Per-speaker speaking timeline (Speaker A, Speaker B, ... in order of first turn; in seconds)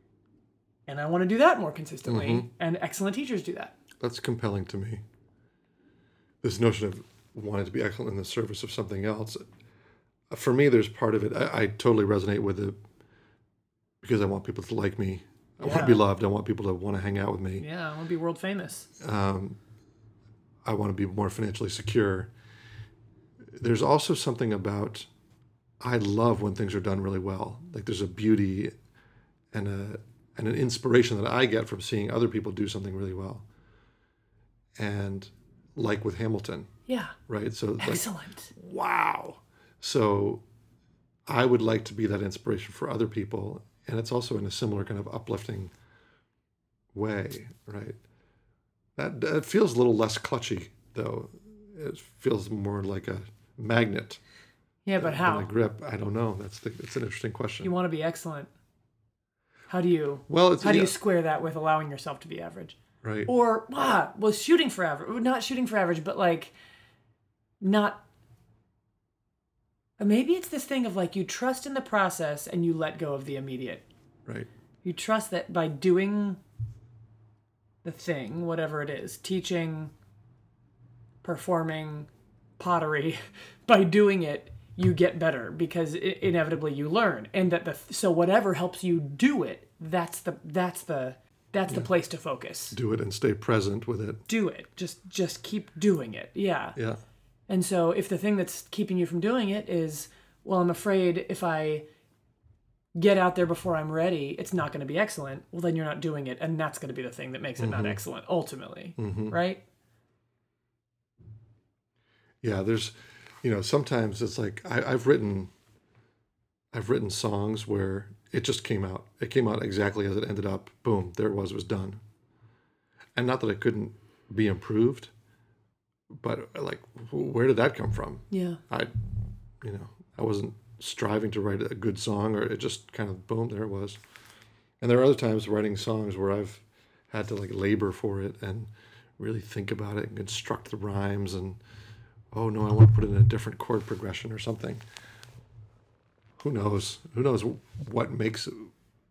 Speaker A: 0.9-3.7, 15.6-16.0, 17.6-18.9, 36.9-37.1, 37.8-38.5, 54.8-55.5, 57.6-58.5, 59.7-66.5, 67.6-68.0, 70.0-73.8, 74.8-76.4, 77.8-79.9, 81.2-82.1, 82.6-92.8, 94.3-96.8, 97.5-101.8, 102.9-109.6, 128.3-128.6
Speaker B: 2.1-2.5, 4.0-5.0, 6.4-9.4, 10.3-12.8, 14.0-17.6, 19.0-19.6, 20.6-22.3, 23.5-25.1, 25.8-28.7, 29.5-33.5, 34.8-36.7, 37.3-40.4, 41.3-45.7, 46.9-48.0, 49.0-54.2, 55.0-57.7, 60.3-60.9, 63.0-63.3, 92.7-94.2, 107.6-108.0, 109.0-109.3, 112.4-115.5, 116.7-122.0, 123.2-125.1, 126.2-128.9, 129.6-134.0, 134.8-141.6, 142.3-144.8, 146.4-148.7